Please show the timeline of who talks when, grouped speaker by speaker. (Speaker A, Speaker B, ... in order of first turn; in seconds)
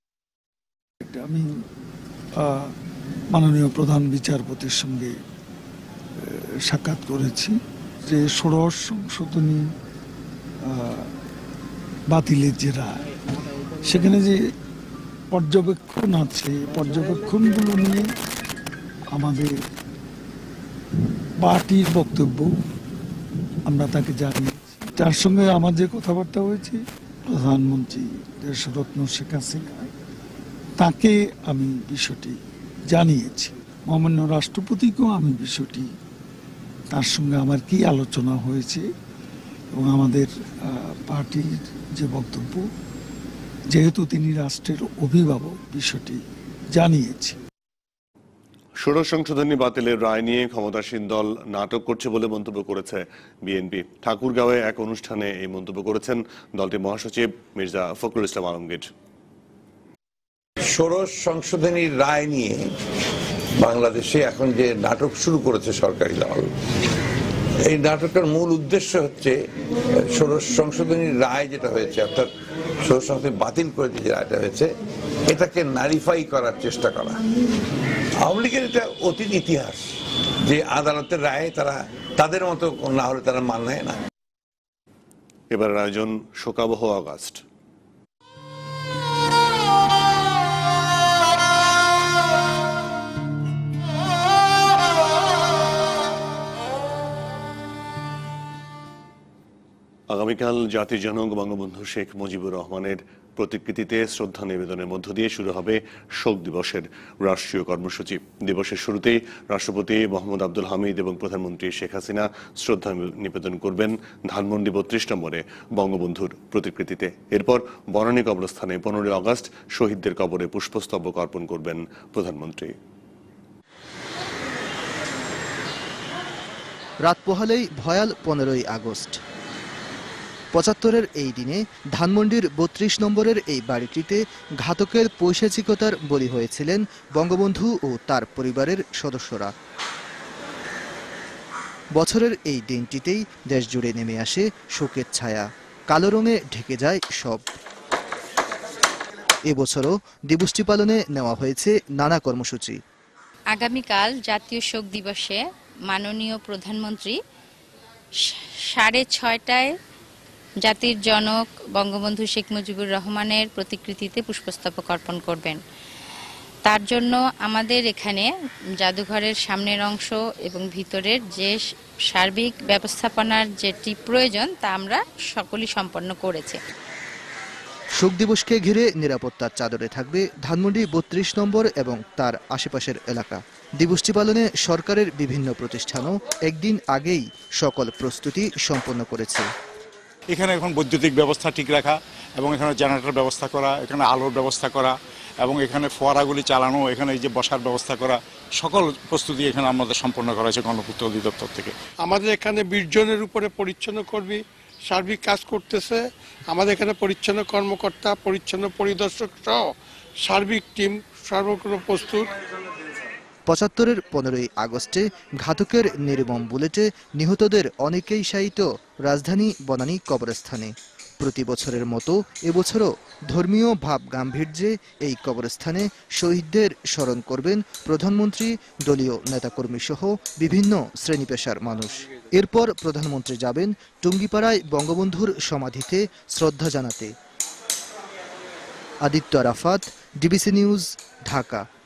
Speaker A: 1.0-1.5, 2.4-2.7, 3.3-5.1, 6.2-9.6, 10.6-11.1, 12.1-13.0, 13.8-14.4, 15.3-18.1, 19.1-19.5, 21.4-22.5, 23.6-29.9, 30.8-35.9, 36.9-38.9, 39.7-42.6, 43.7-47.4
Speaker B: 48.8-58.9, 85.5-87.4, 100.1-122.7
Speaker C: 60.7-62.7, 63.6-66.5, 67.7-69.4, 70.0-72.3, 72.8-74.7, 75.3-77.2, 78.2-79.8, 80.4-84.0
Speaker D: 127.1-129.2, 130.5-139.5, 141.9-147.4, 149.5-152.8, 178.0-189.4, 213.5-237.1, 239.1-241.6
Speaker E: 153.5-157.2, 158.2-159.7, 160.6-165.6, 166.7-168.3, 168.8-176.6
Speaker F: 190.3-201.8
Speaker G: 202.0-209.7, 210.2-212.3